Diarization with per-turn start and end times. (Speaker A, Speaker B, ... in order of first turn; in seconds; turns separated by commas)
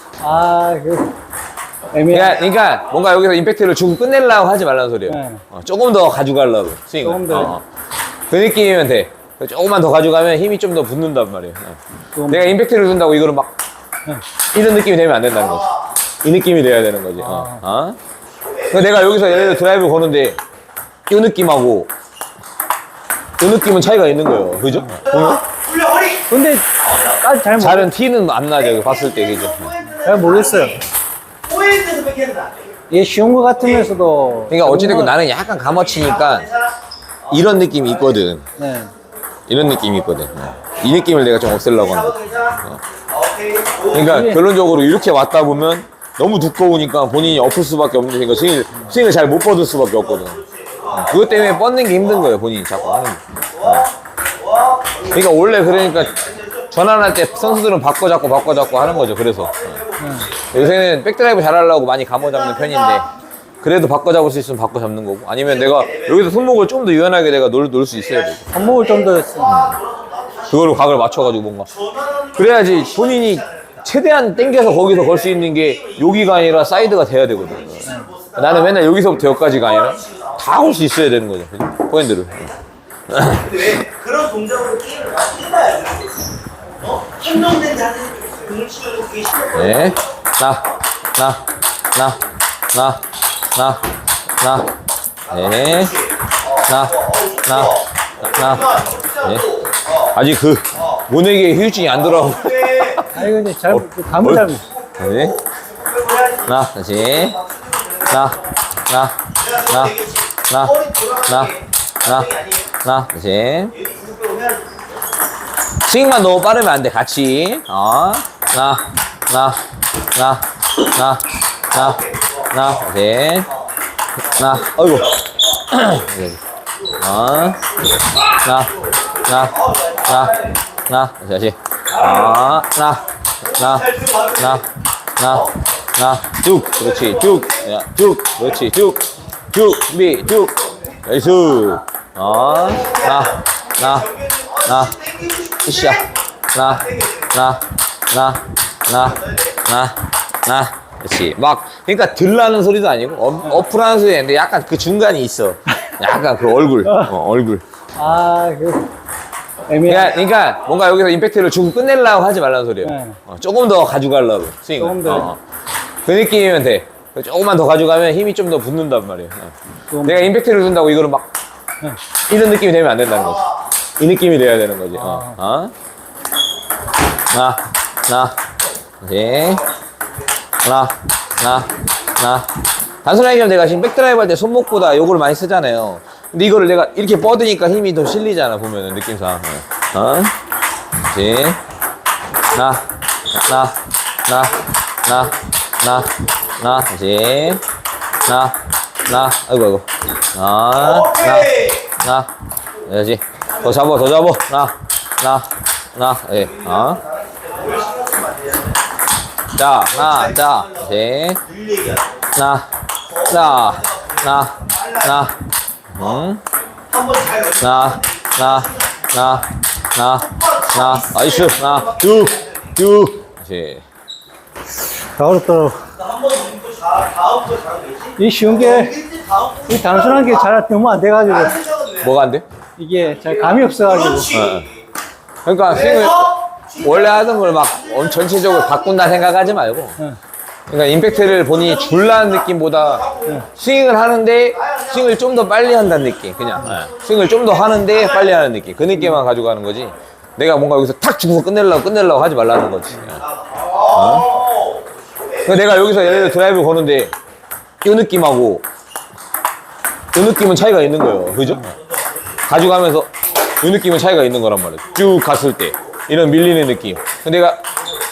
Speaker A: 0.2-1.1, Speaker A: 1.9-2.4, Speaker B: 2.1-7.6, Speaker A: 5.1-5.4, Speaker A: 7.0-7.6, Speaker B: 8.3-13.5, Speaker A: 12.2-12.6, Speaker B: 14.5-18.0, Speaker C: 15.5-15.8, Speaker A: 17.2-17.6, Speaker C: 18.5-19.6, Speaker B: 18.7-20.4, Speaker B: 21.1-21.9, Speaker B: 23.4-25.4, Speaker C: 24.9-27.2, Speaker A: 26.3-27.9, Speaker B: 27.6-29.7, Speaker C: 28.6-30.8, Speaker A: 30.0-30.8, Speaker C: 31.4-32.8, Speaker A: 32.9-35.1, Speaker C: 33.6-33.9, Speaker B: 34.5-36.5, Speaker C: 35.6-36.7, Speaker B: 37.3-38.5, Speaker A: 38.6-38.9, Speaker B: 39.5-42.8, Speaker C: 41.8-44.1, Speaker B: 43.9-53.9, Speaker A: 44.0-44.4, Speaker C: 50.0-52.3, Speaker C: 53.6-60.8, Speaker B: 55.1-59.8, Speaker A: 60.0-60.4, Speaker B: 60.4-63.1, Speaker C: 62.2-63.1, Speaker B: 63.6-68.5, Speaker C: 65.4-66.5, Speaker C: 68.0-80.9, Speaker A: 68.5-69.6, Speaker B: 69.4-69.8, Speaker B: 70.5-71.7, Speaker B: 72.3-82.5, Speaker B: 83.1-83.6, Speaker C: 83.4-86.2, Speaker C: 86.8-90.1, Speaker B: 89.5-92.2, Speaker B: 92.7-93.8, Speaker B: 94.4-94.7, Speaker C: 95.3-100.1, Speaker B: 95.3-96.0, Speaker B: 96.6-99.6, Speaker B: 100.1-105.4, Speaker C: 101.8-103.2, Speaker A: 103.1-104.7, Speaker C: 104.6-108.4, Speaker B: 106.5-107.4, Speaker B: 108.1-110.0, Speaker C: 109.4-112.7, Speaker B: 110.5-113.8, Speaker C: 113.7-114.8, Speaker B: 115.8-119.6, Speaker B: 120.1-123.5, Speaker C: 121.7-122.9, Speaker B: 124.3-126.4, Speaker C: 124.7-125.1, Speaker B: 127.0-127.6, Speaker B: 128.2-144.1, Speaker C: 128.9-130.6, Speaker C: 132.0-132.5, Speaker C: 133.5-134.6, Speaker C: 136.7-137.7, Speaker C: 140.4-141.6, Speaker C: 142.3-146.1, Speaker B: 144.6-144.9, Speaker B: 145.6-157.6, Speaker C: 146.7-147.4, Speaker C: 149.0-149.6, Speaker A: 156.8-157.1, Speaker A: 158.0-158.9, Speaker A: 159.7-160.2, Speaker B: 159.8-165.4, Speaker A: 162.8-163.2, Speaker A: 164.8-165.3, Speaker B: 166.0-171.3, Speaker A: 169.9-170.3, Speaker B: 172.3-175.7, Speaker A: 174.9-175.3, Speaker B: 177.3-178.4, Speaker B: 179.0-179.6, Speaker B: 180.6-182.5, Speaker B: 183.0-190.3, Speaker B: 191.0-191.6, Speaker B: 192.5-197.6, Speaker B: 198.2-202.3, Speaker C: 200.8-201.9, Speaker B: 202.8-207.0, Speaker C: 206.4-208.8, Speaker B: 209.5-211.4, Speaker C: 209.9-212.3, Speaker B: 212.3-212.7, Speaker C: 213.1-215.1, Speaker B: 213.2-215.4, Speaker B: 215.9-216.4, Speaker C: 216.9-219.1, Speaker B: 217.6-223.8, Speaker C: 220.2-222.6, Speaker A: 225.2-225.8, Speaker C: 225.9-230.5, Speaker A: 228.2-229.0, Speaker A: 229.7-231.6, Speaker C: 231.3-232.1, Speaker B: 232.0-232.4, Speaker A: 232.8-234.4, Speaker C: 233.2-234.8, Speaker B: 234.3-234.7, Speaker B: 235.4-240.0, Speaker C: 235.7-239.5, Speaker B: 240.7-253.2, Speaker C: 241.2-243.5, Speaker C: 244.6-245.5, Speaker C: 246.1-248.4, Speaker C: 253.2-254.9, Speaker B: 253.8-254.4, Speaker B: 255.4-257.1, Speaker C: 255.8-256.3, Speaker B: 257.8-258.6, Speaker B: 260.1-261.8, Speaker C: 261.7-262.0, Speaker B: 262.4-267.6